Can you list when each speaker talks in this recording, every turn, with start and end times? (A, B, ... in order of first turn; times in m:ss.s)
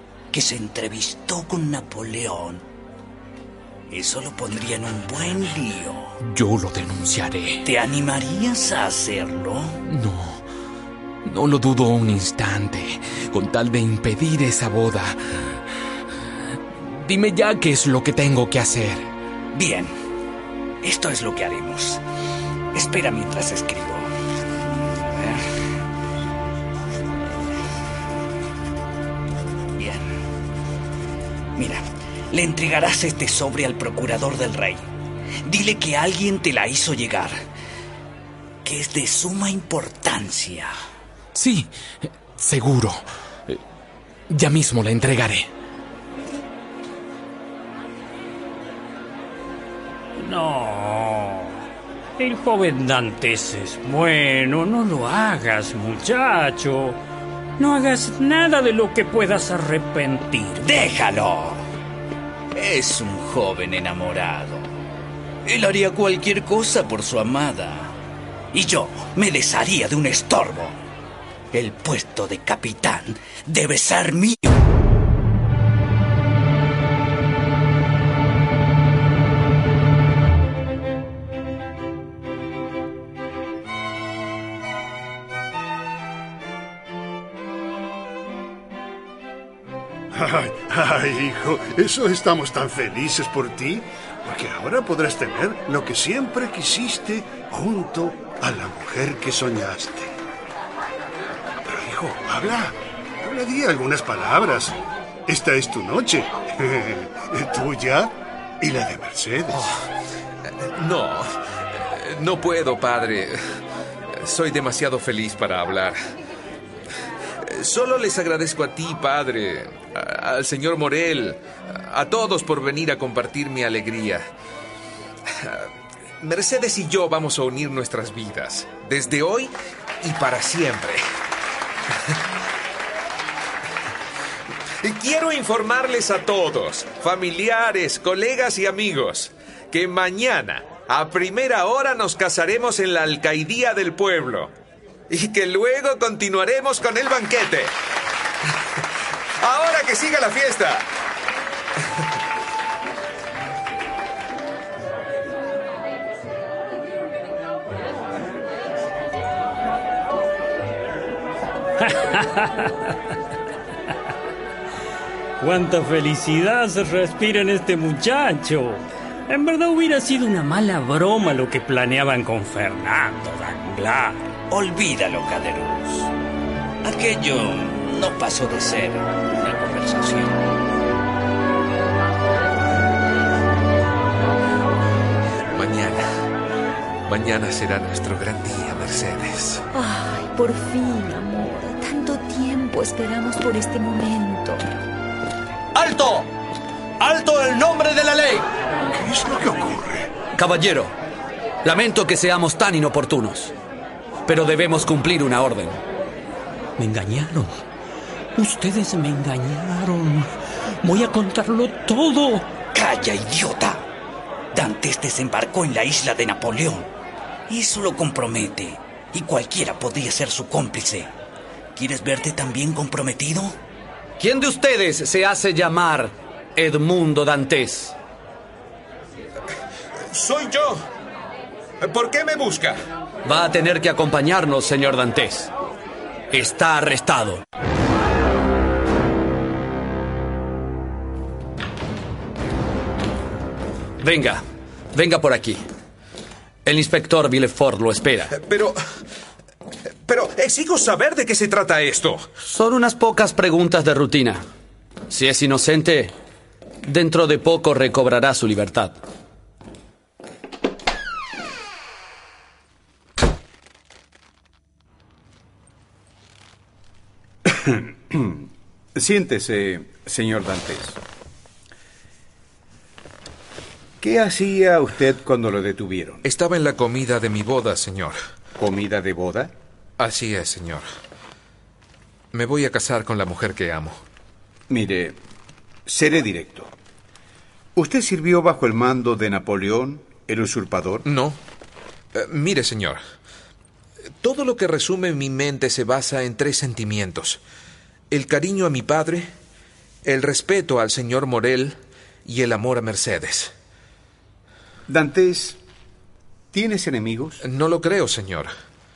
0:00.3-0:02.6 A
0:03.9-0:06.2 A
0:06.2-0:07.6 B
0:07.6-0:09.8 A
0:09.8-0:10.5 B
0:11.2-0:15.4 B
0:16.7-0:19.1 B
0:19.5-0:20.0 A
0:20.8-0:22.0 A
0:22.7-0:24.1 A
0:25.0-0:25.4 A
0:29.8-0:30.1 A
0:31.6-0:34.9 A
0:35.4-0:37.4 A
0:38.6-0:40.8 A
0:41.4-0:43.6 B
0:44.3-0:45.5 B
0:50.2-0:51.6 C
0:52.2-0:57.0 C
0:57.6-1:00.9 C
1:00.6-1:01.7 A
1:02.5-1:04.7 A
1:05.4-1:08.0 A
1:08.5-1:10.8 A
1:11.5-1:14.4 A
1:30.1-1:40.2 D
1:41.7-1:49.8 D
1:49.5-1:49.8 E
1:50.4-1:53.4 E
1:54.1-1:56.0 E
1:57.4-2:04.3 E
2:05.2-2:11.0 E
2:11.9-2:12.2 E
2:14.8-2:24.5 E
2:25.1-2:27.8 E
2:28.5-2:30.9 E
2:41.8-2:43.0 C
2:45.4-2:54.3 C
2:54.5-2:56.1 A
2:56.8-3:00.4 A
3:05.5-3:06.2 E
3:07.1-3:09.6 E
3:09.7-3:14.6 F
3:15.7-3:16.3 G
3:17.0-3:18.5 G
3:18.9-3:20.1 D
3:20.4-3:20.9 G
3:21.6-3:23.6 G
3:24.3-3:25.8 G
3:28.5-3:29.5 A
3:32.5-3:33.8 A
3:34.5-3:36.9 A
3:37.5-3:41.1 A
3:41.8-3:43.6 A
3:44.2-3:48.0 G
3:50.1-3:50.9 E
3:51.8-3:52.8 E
3:53.2-3:55.5 G
3:56.3-3:57.4 G
4:04.0-4:05.6 G
4:06.6-4:08.3 G
4:08.3-4:08.8 E
4:10.1-4:12.3 E
4:12.5-4:14.5 G
4:15.1-4:16.2 G
4:16.8-4:19.0 G
4:27.6-4:31.0 H
4:34.0-4:36.2 H
4:36.2-4:38.2 E
4:38.6-4:39.5 H
4:40.0-4:40.9 E
4:42.3-4:44.0 E
4:44.7-4:45.2 H
4:45.9-4:46.7 H
4:47.8-4:51.0 H
4:51.0-4:51.4 E
4:52.1-4:53.0 E
4:54.2-4:57.4 E
4:58.1-4:59.3 E
5:00.0-5:03.6 E
5:04.9-5:05.6 H
5:06.5-5:07.4 H
5:07.4-5:08.5 E